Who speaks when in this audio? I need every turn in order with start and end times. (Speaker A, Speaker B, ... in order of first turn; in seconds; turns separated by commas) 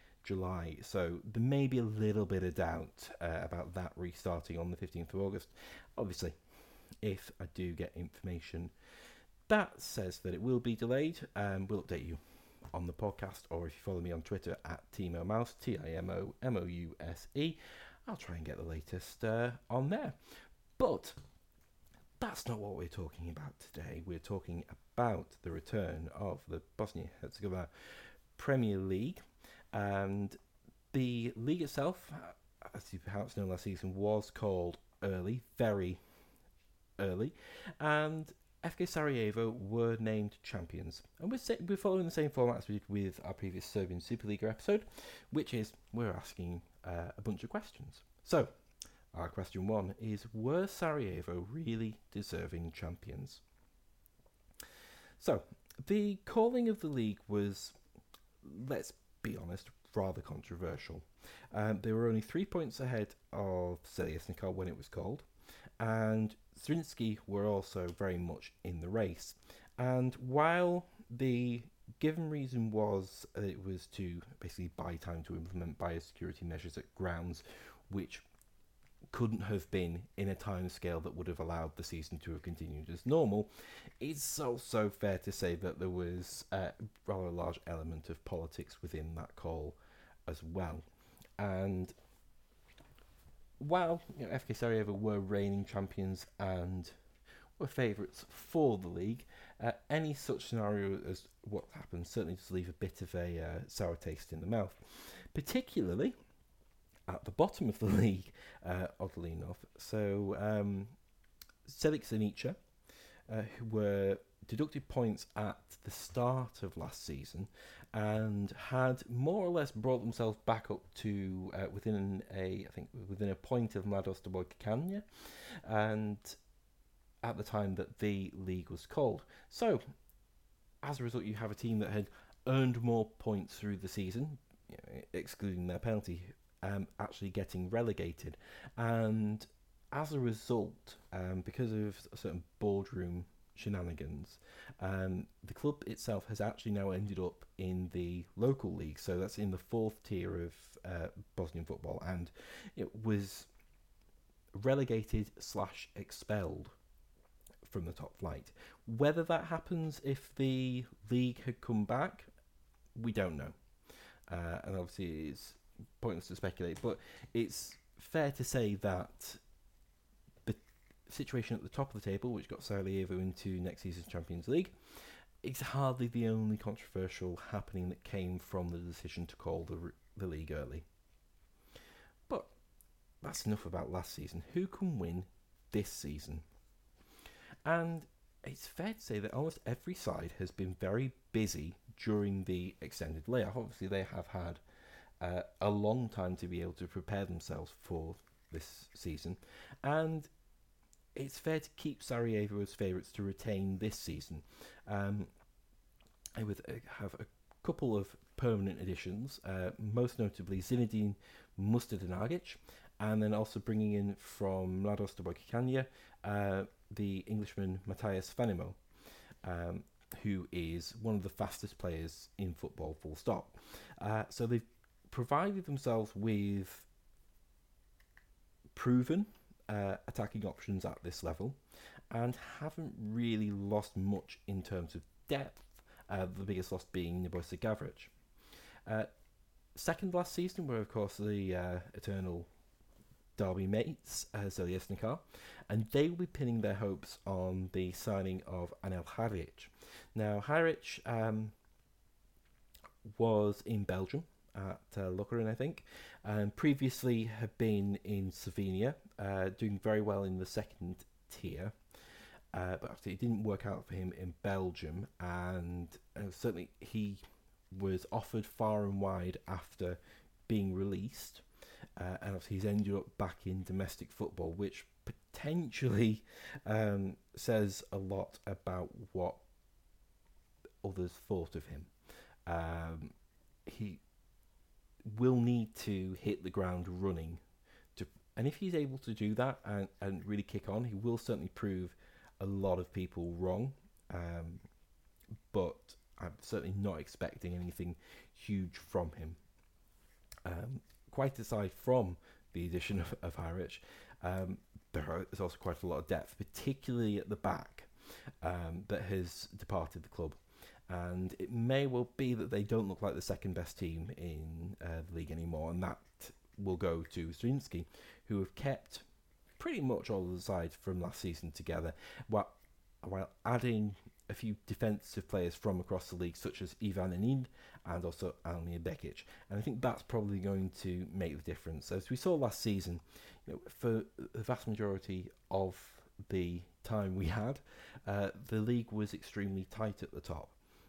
Speaker A: 0.2-6.3, Speaker A: 7.0-8.7, Speaker A: 9.5-12.2, Speaker A: 12.7-21.2, Speaker A: 22.2-29.2, Speaker A: 29.7-30.4, Speaker A: 30.9-36.0, Speaker A: 37.0-48.5, Speaker A: 49.1-53.4, Speaker A: 55.2-57.8, Speaker A: 58.4-65.3, Speaker A: 65.8-78.2, Speaker A: 79.1-90.8, Speaker A: 91.4-91.9, Speaker A: 93.6-97.0, Speaker A: 97.6-106.1, Speaker A: 107.1-110.9, Speaker A: 111.7-112.6, Speaker A: 113.3-126.4, Speaker A: 127.2-129.8, Speaker A: 130.8-153.5, Speaker A: 154.5-156.8, Speaker A: 157.6-162.3, Speaker A: 162.9-163.6, Speaker A: 164.3-169.4, Speaker A: 170.4-174.7, Speaker A: 175.4-180.8, Speaker A: 183.2-186.4, Speaker A: 187.6-194.6, Speaker A: 195.2-200.3, Speaker A: 201.1-205.3, Speaker A: 206.3-218.8, Speaker A: 219.4-226.9, Speaker A: 228.7-231.6, Speaker A: 232.1-238.1, Speaker A: 239.7-242.5, Speaker A: 243.4-251.5, Speaker A: 253.1-261.8, Speaker A: 262.5-271.4, Speaker A: 272.0-279.4, Speaker A: 280.8-281.9, Speaker A: 282.5-283.1, Speaker A: 283.6-284.0, Speaker A: 285.1-287.4, Speaker A: 287.9-294.6, Speaker A: 295.5-299.4, Speaker A: 300.4-307.9, Speaker A: 308.4-319.0, Speaker A: 319.6-340.5